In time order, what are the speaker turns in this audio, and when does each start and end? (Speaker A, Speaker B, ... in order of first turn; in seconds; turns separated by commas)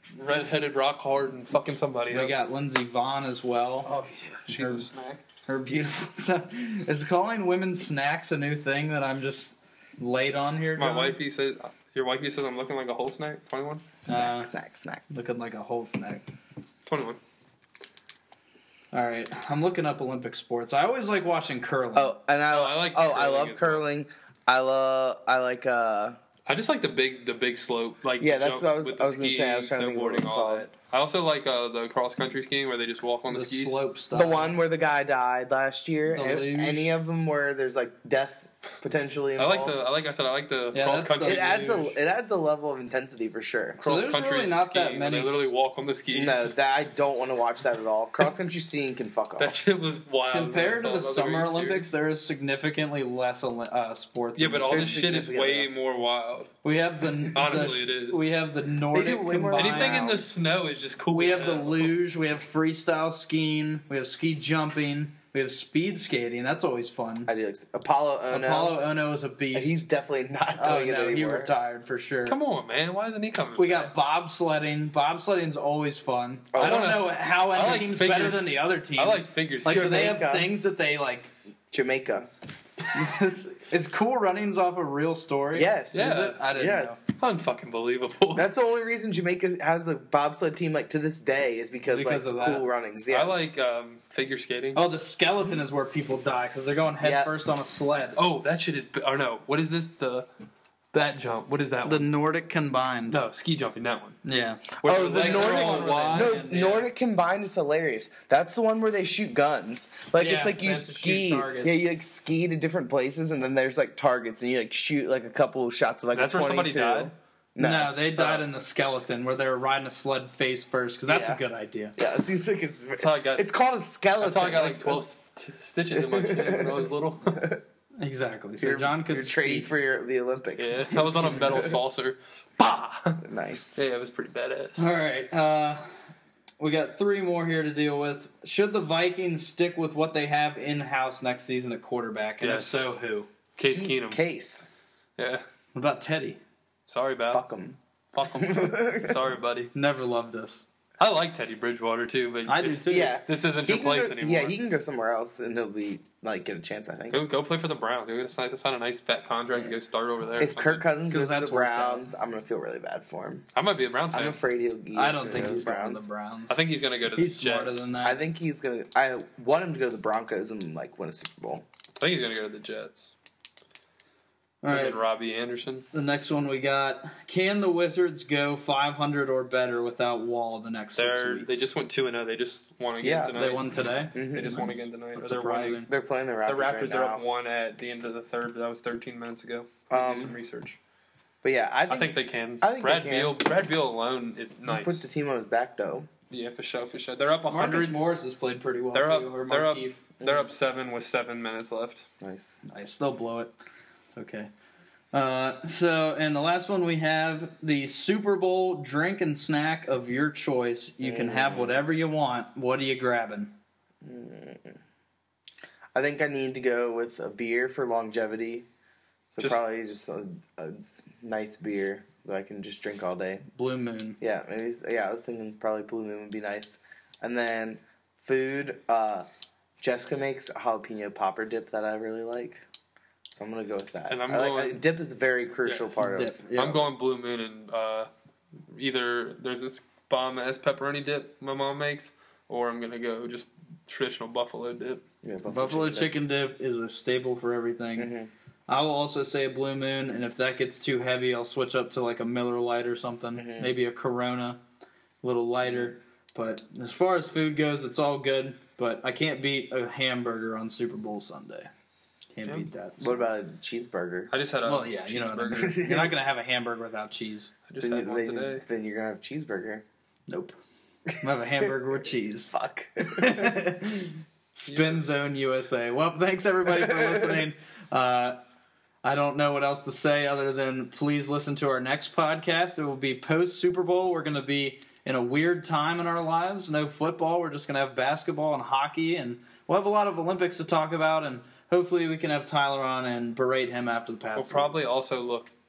Speaker A: 0.2-2.4, Speaker B: 2.1-3.9, Speaker A: 3.9-5.2, Speaker B: 4.5-4.9, Speaker B: 5.5-11.2, Speaker A: 10.8-13.9, Speaker C: 14.1-15.1, Speaker B: 14.1-14.5, Speaker B: 15.1-16.2, Speaker A: 16.9-17.2, Speaker B: 18.9-22.2, Speaker C: 21.9-26.2, Speaker A: 22.5-23.8, Speaker A: 26.5-33.8, Speaker C: 28.2-30.7, Speaker B: 33.3-34.5, Speaker C: 34.1-39.8, Speaker B: 36.1-37.0, Speaker A: 39.4-41.9, Speaker B: 40.7-41.9, Speaker C: 41.2-43.8, Speaker A: 43.8-46.5, Speaker B: 43.8-45.5, Speaker C: 46.1-49.5, Speaker A: 49.4-51.9, Speaker B: 50.3-55.0, Speaker A: 54.4-56.5, Speaker C: 54.7-55.8, Speaker B: 56.6-60.2, Speaker A: 57.4-58.2, Speaker C: 58.9-60.4, Speaker A: 59.6-62.0, Speaker B: 61.1-67.3, Speaker C: 67.3-68.8, Speaker B: 68.3-69.8, Speaker C: 69.5-71.5, Speaker B: 70.6-72.4, Speaker A: 72.3-73.9, Speaker B: 73.6-81.3, Speaker C: 76.5-76.9, Speaker A: 76.6-80.0, Speaker C: 79.7-80.5, Speaker C: 81.7-82.3, Speaker B: 82.9-87.0, Speaker C: 85.5-87.1, Speaker A: 85.9-86.4, Speaker A: 87.2-88.5, Speaker C: 88.3-93.4, Speaker B: 91.9-92.7, Speaker A: 93.1-94.8, Speaker B: 94.8-98.2, Speaker C: 97.0-97.3, Speaker A: 98.2-100.3, Speaker A: 100.9-102.1, Speaker B: 101.8-103.2, Speaker A: 103.1-104.2, Speaker B: 104.2-106.8, Speaker A: 104.8-106.6, Speaker C: 104.8-118.0, Speaker B: 110.2-111.8, Speaker A: 116.1-117.1, Speaker B: 117.6-122.0, Speaker A: 118.2-118.4, Speaker C: 121.1-121.4, Speaker C: 122.0-125.0, Speaker A: 123.0-123.5, Speaker A: 124.2-127.4, Speaker C: 125.9-127.6, Speaker B: 128.0-129.7, Speaker C: 128.6-131.7, Speaker A: 130.6-134.9, Speaker B: 130.9-131.7, Speaker C: 133.2-133.8, Speaker B: 134.8-135.8, Speaker B: 136.6-143.3, Speaker A: 142.4-142.9, Speaker A: 143.6-144.2, Speaker C: 143.6-144.7, Speaker A: 145.2-145.4, Speaker B: 145.8-146.4, Speaker A: 146.9-147.4, Speaker C: 147.3-147.8, Speaker A: 148.1-149.7, Speaker C: 148.4-149.2, Speaker B: 149.7-150.7, Speaker A: 151.0-154.5, Speaker B: 152.5-153.2, Speaker C: 152.9-157.2, Speaker A: 157.1-160.9, Speaker C: 160.4-163.4, Speaker B: 161.1-162.0, Speaker A: 163.6-164.4, Speaker C: 164.1-166.1, Speaker B: 164.9-166.6, Speaker A: 166.5-167.9, Speaker B: 167.2-168.2, Speaker C: 168.0-171.7, Speaker A: 172.0-173.1, Speaker B: 174.6-175.0, Speaker A: 174.7-175.9, Speaker B: 175.9-181.7, Speaker A: 181.0-185.9, Speaker C: 183.0-183.4, Speaker B: 183.3-185.9, Speaker C: 184.2-184.7, Speaker C: 185.9-187.2, Speaker A: 186.5-190.8, Speaker C: 189.9-190.3, Speaker C: 191.4-193.4, Speaker A: 191.9-195.1, Speaker C: 194.7-196.1, Speaker A: 196.3-198.0, Speaker B: 197.5-200.0, Speaker A: 198.9-202.1, Speaker C: 200.2-200.5, Speaker C: 202.2-202.6, Speaker B: 202.7-203.5, Speaker B: 204.1-204.5, Speaker B: 205.1-213.5, Speaker C: 211.0-211.8, Speaker C: 214.0-214.8, Speaker C: 215.9-218.7, Speaker C: 219.3-223.4, Speaker B: 223.6-224.2, Speaker C: 224.2-229.3, Speaker C: 229.8-232.6, Speaker C: 233.3-236.6, Speaker A: 234.1-234.8, Speaker A: 235.7-236.0, Speaker B: 236.0-236.8, Speaker A: 236.6-238.1, Speaker A: 238.7-245.0, Speaker C: 245.2-246.1, Speaker B: 245.5-248.1, Speaker C: 248.0-248.3, Speaker B: 248.7-254.6, Speaker C: 253.4-253.7, Speaker B: 255.2-261.7, Speaker B: 262.3-263.3, Speaker C: 263.0-264.3, Speaker A: 264.3-265.9, Speaker B: 264.6-267.5, Speaker C: 265.6-266.1, Speaker A: 267.7-268.6, Speaker C: 267.8-269.9, Speaker B: 270.3-270.6, Speaker B: 271.2-278.4, Speaker C: 272.5-273.8, Speaker A: 274.7-275.1, Speaker C: 276.7-277.4, Speaker B: 279.0-294.8, Speaker A: 294.4-295.5